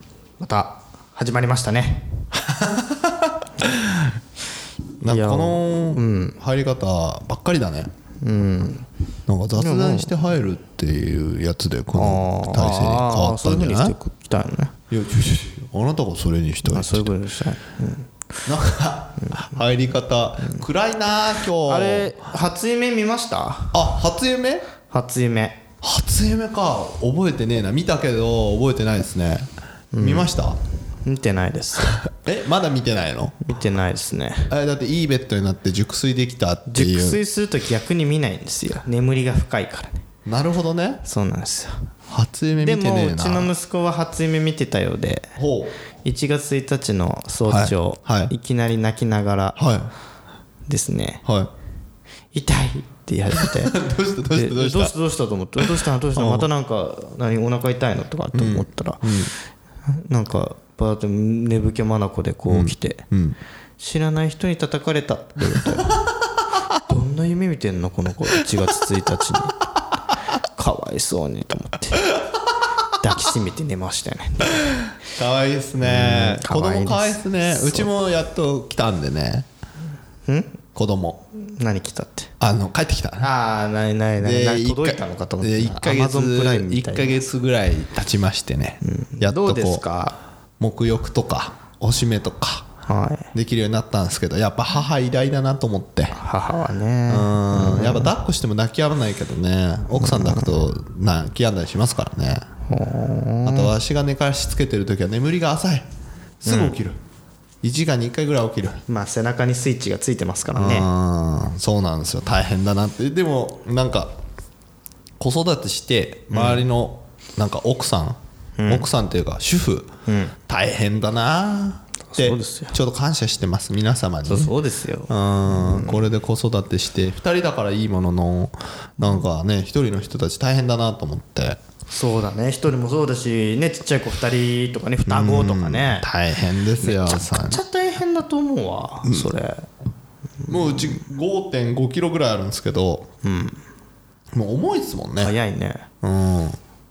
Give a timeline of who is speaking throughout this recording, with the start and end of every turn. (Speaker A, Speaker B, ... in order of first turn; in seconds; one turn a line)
Speaker A: 0.4-2.2
Speaker B: 2.4-4.1
Speaker B: 5.0-7.9
Speaker A: 5.1-6.4
Speaker A: 8.2-8.9
Speaker B: 9.3-13.9
Speaker A: 9.6-10.1
Speaker A: 11.9-14.7
Speaker B: 14.9-17.1
Speaker A: 16.7-18.1
Speaker B: 18.4-22.1
Speaker A: 19.2-19.5
Speaker A: 21.6-23.9
Speaker B: 23.7-24.7
Speaker A: 24.9-25.6
Speaker B: 25.8-29.5
Speaker A: 29.9-30.3
Speaker B: 30.0-30.6
Speaker A: 31.0-32.0
Speaker B: 32.0-33.5
Speaker A: 33.4-34.5
Speaker B: 34.5-37.2
Speaker A: 36.7-40.0
Speaker B: 40.2-41.0
Speaker A: 41.0-41.8
Speaker B: 42.1-43.5
Speaker A: 42.6-45.4
Speaker B: 45.4-45.7
Speaker A: 46.0-49.6
Speaker B: 47.5-48.3
Speaker B: 49.6-49.9
Speaker A: 50.7-51.2
Speaker B: 51.2-51.5
Speaker A: 52.3-53.8
Speaker B: 53.3-54.9
Speaker A: 54.3-59.3
Speaker B: 55.6-56.5
Speaker B: 58.3-59.3
Speaker A: 59.9-63.0
Speaker B: 62.5-63.4
Speaker A: 63.8-66.0
Speaker B: 65.5-65.8
Speaker A: 66.8-69.6
Speaker A: 70.5-72.1
Speaker A: 73.0-74.7
Speaker B: 74.9-79.5
Speaker A: 75.8-77.9
Speaker A: 80.3-80.6
Speaker B: 80.7-81.2
Speaker A: 81.4-82.3
Speaker B: 82.4-83.3
Speaker A: 83.2-87.2
Speaker B: 84.2-89.8
Speaker A: 88.8-90.2
Speaker B: 90.6-92.7
Speaker A: 92.9-93.3
Speaker B: 93.3-96.2
Speaker A: 96.1-98.1
Speaker B: 97.1-102.5
Speaker A: 100.0-100.5
Speaker A: 102.7-103.7
Speaker B: 103.4-105.9
Speaker A: 106.4-106.7
Speaker B: 106.4-107.0
Speaker B: 107.6-108.8
Speaker A: 108.9-110.9
Speaker B: 110.5-114.1
Speaker B: 115.2-119.9
Speaker A: 116.3-116.6
Speaker A: 118.6-118.8
Speaker A: 120.1-120.3
Speaker B: 120.5-124.5
Speaker A: 122.1-122.7
Speaker A: 124.2-126.0
Speaker B: 125.1-131.6
Speaker A: 131.9-136.1
Speaker B: 135.0-137.6
Speaker A: 136.8-139.7
Speaker B: 139.0-139.3
Speaker B: 140.4-143.1
Speaker A: 143.2-143.6
Speaker B: 144.3-145.3
Speaker A: 145.2-145.9
Speaker B: 146.0-146.6